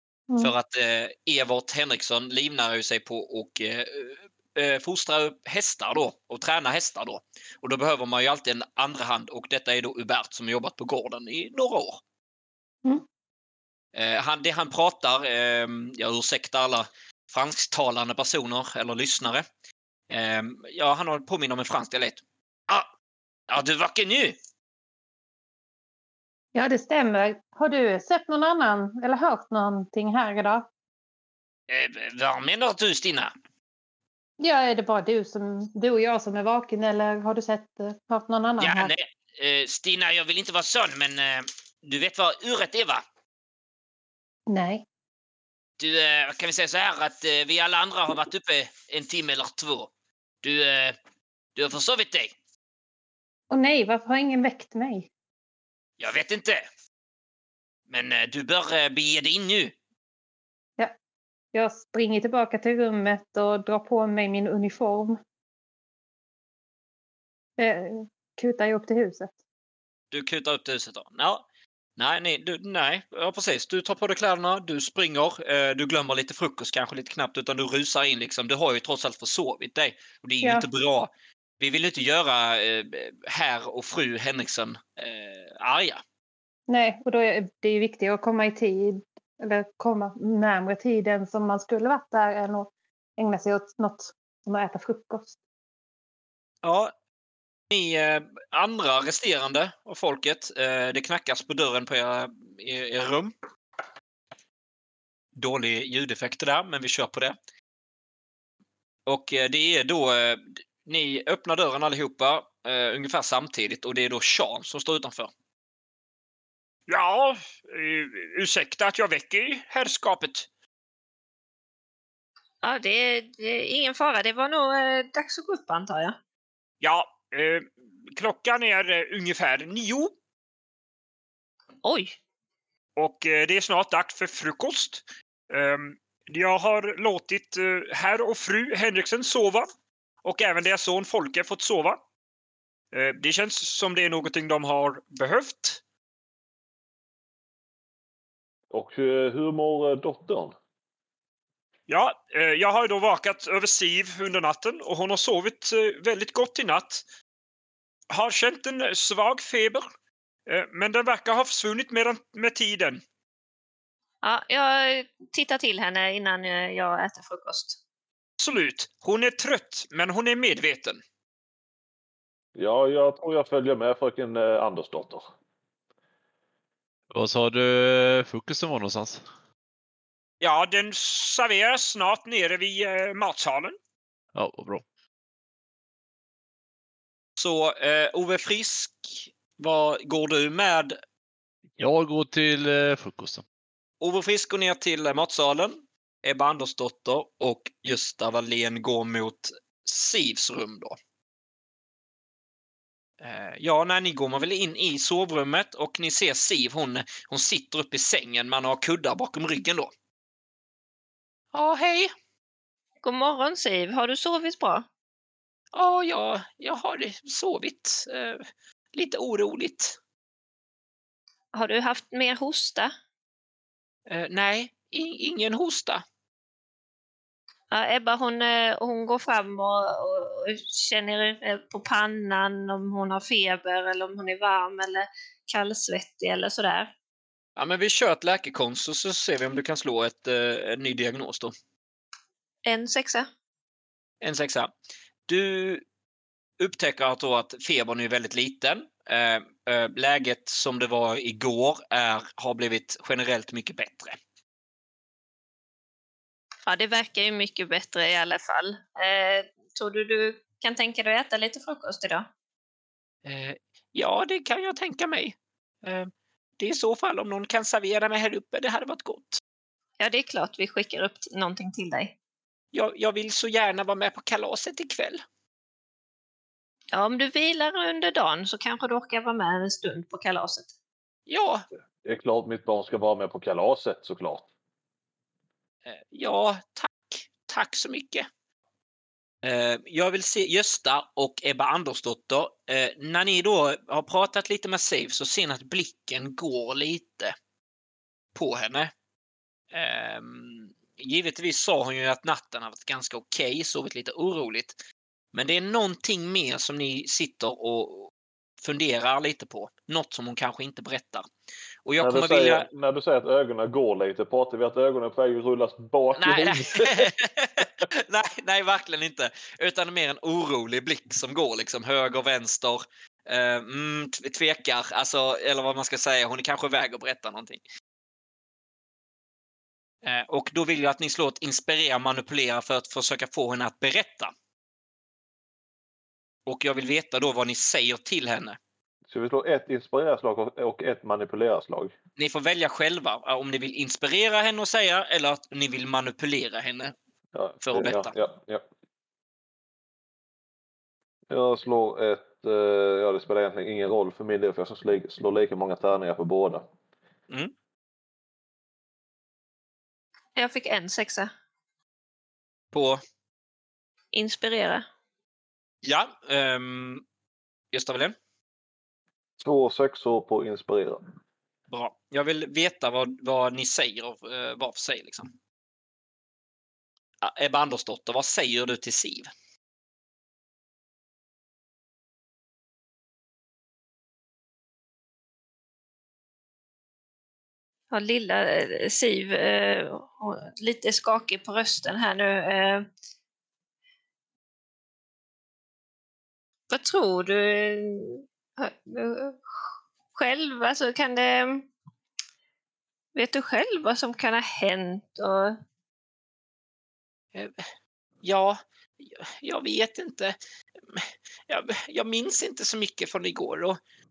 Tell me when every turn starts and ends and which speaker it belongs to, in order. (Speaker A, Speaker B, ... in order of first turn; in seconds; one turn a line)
Speaker A: 0.4-12.0
Speaker A: 13.9-19.4
Speaker A: 20.1-22.9
Speaker A: 23.5-24.4
Speaker B: 26.5-30.7
Speaker A: 31.7-33.3
Speaker B: 34.4-38.9
Speaker A: 38.6-43.0
Speaker B: 44.5-44.8
Speaker A: 45.8-49.9
Speaker A: 50.4-51.0
Speaker A: 51.5-52.3
Speaker B: 53.5-55.1
Speaker A: 56.0-56.6
Speaker A: 57.9-59.7
Speaker B: 61.5-65.2
Speaker B: 67.6-69.3
Speaker A: 70.1-71.4
Speaker A: 72.0-86.0
Speaker B: 80.4-80.7
Speaker B: 86.7-95.3
Speaker A: 96.6-96.9
Speaker A: 97.7-103.3
Speaker A: 105.3-107.3
Speaker A: 109.0-115.3
Speaker A: 116.9-120.5
Speaker C: 122.6-126.2
Speaker A: 126.8-130.1
Speaker C: 131.8-132.1
Speaker A: 133.0-139.7
Speaker A: 140.2-142.0
Speaker A: 142.9-145.8
Speaker D: 148.7-150.5
Speaker A: 151.9-157.0
Speaker A: 158.1-159.8
Speaker A: 160.5-163.0
Speaker C: 164.2-167.8
Speaker A: 168.4-171.0
Speaker D: 172.6-175.3
Speaker E: 177.1-179.2
Speaker A: 180.4-183.8
Speaker E: 184.3-184.8
Speaker A: 187.4-191.0
Speaker E: 191.8-193.4
Speaker A: 194.0-200.9
Speaker A: 203.2-209.9
Speaker A: 211.5-212.1
Speaker C: 213.0-214.8
Speaker A: 215.7-219.9
Speaker C: 221.5-222.9
Speaker A: 224.1-226.0
Speaker C: 227.7-236.9
Speaker A: 237.6-241.5
Speaker C: 242.6-243.3
Speaker A: 244.2-244.7
Speaker A: 245.3-245.8
Speaker A: 246.6-254.2
Speaker C: 256.6-262.3
Speaker A: 263.2-269.4
Speaker C: 270.0-272.1
Speaker A: 272.7-275.2
Speaker C: 276.9-280.7
Speaker A: 281.3-281.6
Speaker D: 282.0-284.5
Speaker A: 285.9-288.3
Speaker A: 289.4-297.3
Speaker A: 298.3-298.9
Speaker A: 299.7-304.8
Speaker A: 305.3-311.2
Speaker A: 311.8-312.6
Speaker D: 312.0-317.6
Speaker A: 316.1-327.6
Speaker A: 330.0-334.3
Speaker A: 336.4-338.6
Speaker D: 339.1-341.9
Speaker A: 342.2-346.9
Speaker D: 347.3-348.6
Speaker A: 347.6-348.1
Speaker D: 351.3-356.6
Speaker C: 360.4-361.3
Speaker A: 362.7-363.0
Speaker C: 364.1-364.9
Speaker A: 365.8-367.0
Speaker A: 367.7-368.1
Speaker D: 369.4-371.0
Speaker A: 371.7-375.3
Speaker A: 377.2-379.3
Speaker C: 387.9-392.9
Speaker C: 396.7-399.4
Speaker C: 400.1-401.7
Speaker C: 403.1-405.6
Speaker A: 407.3-407.6
Speaker A: 408.2-410.4
Speaker A: 410.9-413.8